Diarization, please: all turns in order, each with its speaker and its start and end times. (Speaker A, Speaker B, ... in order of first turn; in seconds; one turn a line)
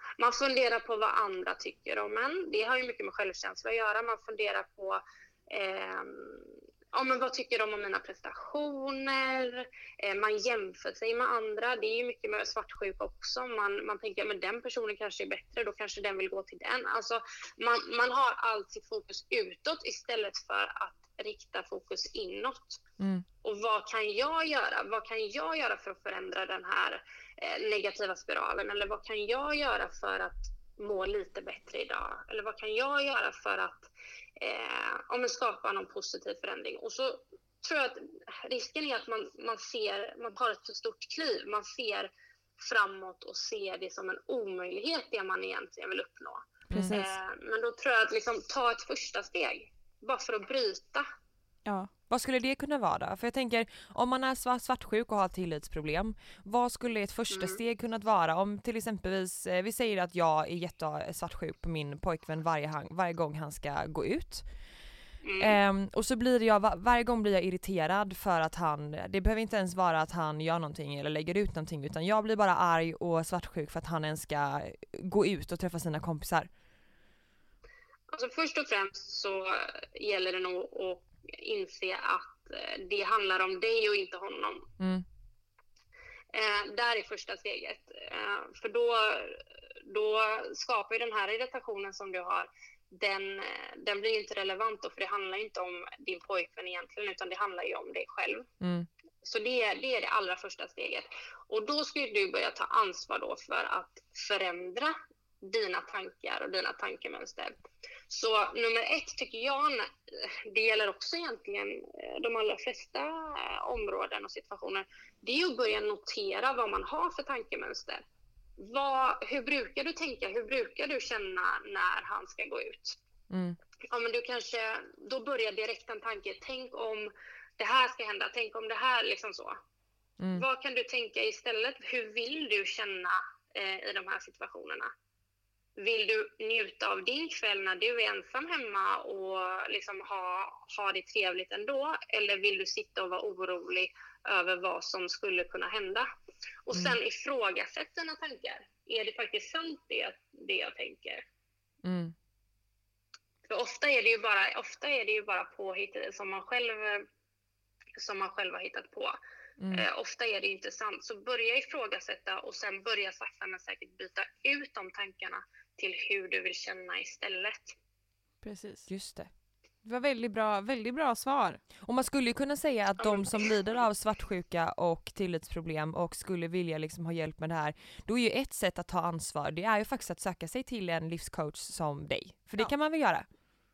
Speaker A: 0.2-22.8
Speaker B: 23.0-23.2
Speaker A: 23.4-51.0
Speaker B: 46.7-47.0
Speaker C: 46.7-47.2
Speaker C: 51.6-51.9
Speaker B: 52.1-64.4
Speaker A: 57.3-57.6
Speaker A: 65.2-65.6
Speaker B: 65.4-76.5
Speaker A: 78.1-84.7
Speaker B: 84.8-85.0
Speaker A: 86.3-98.5
Speaker B: 98.6-98.9
Speaker A: 99.2-107.5
Speaker A: 108.1-109.9
Speaker A: 110.5-118.0
Speaker A: 118.6-123.0
Speaker B: 123.3-123.6
Speaker A: 123.9-129.6
Speaker A: 130.3-134.9
Speaker A: 135.8-146.1
Speaker A: 146.7-151.2
Speaker B: 151.8-152.1
Speaker A: 153.5-157.1
Speaker A: 158.0-159.2
Speaker A: 159.7-167.7
Speaker C: 168.4-168.9
Speaker B: 168.9-169.3
Speaker C: 169.8-171.6
Speaker B: 171.8-183.2
Speaker A: 173.0-173.5